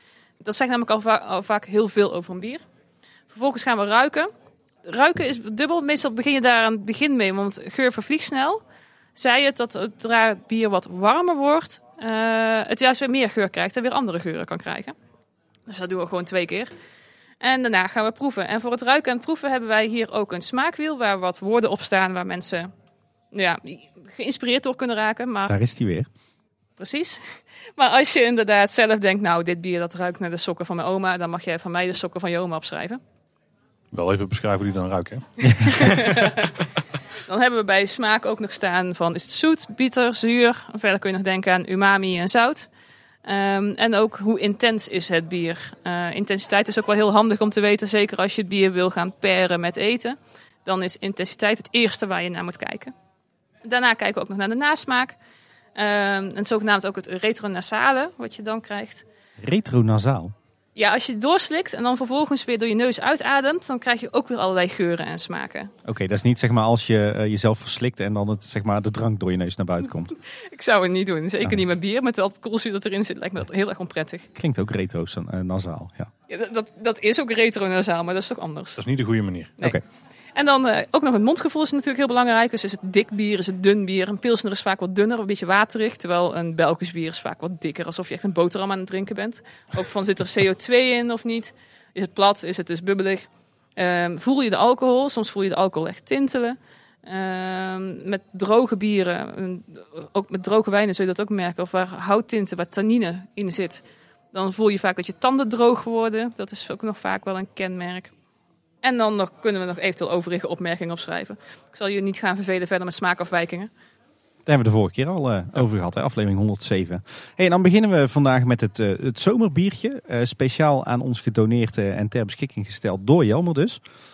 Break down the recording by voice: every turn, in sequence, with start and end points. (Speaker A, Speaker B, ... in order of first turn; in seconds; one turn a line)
Speaker A: 0.4-2.6
Speaker A: 3.3-4.3
Speaker A: 4.8-8.6
Speaker A: 9.1-14.9
Speaker A: 15.7-16.7
Speaker A: 17.4-22.7
Speaker A: 23.3-25.6
Speaker B: 25.5-26.1
Speaker A: 26.8-33.0
Speaker C: 33.9-36.1
Speaker A: 35.4-36.5
Speaker A: 37.2-42.7
Speaker A: 43.2-52.9
Speaker A: 53.6-55.2
Speaker A: 55.7-59.0
Speaker B: 59.4-60.3
Speaker A: 60.8-65.7
Speaker B: 65.8-70.2
Speaker A: 70.3-74.3
Speaker B: 74.3-76.1
Speaker A: 76.3-78.8
Speaker C: 78.8-79.5
Speaker A: 80.3-108.1
Speaker A: 108.8-113.7
Speaker B: 114.5-123.8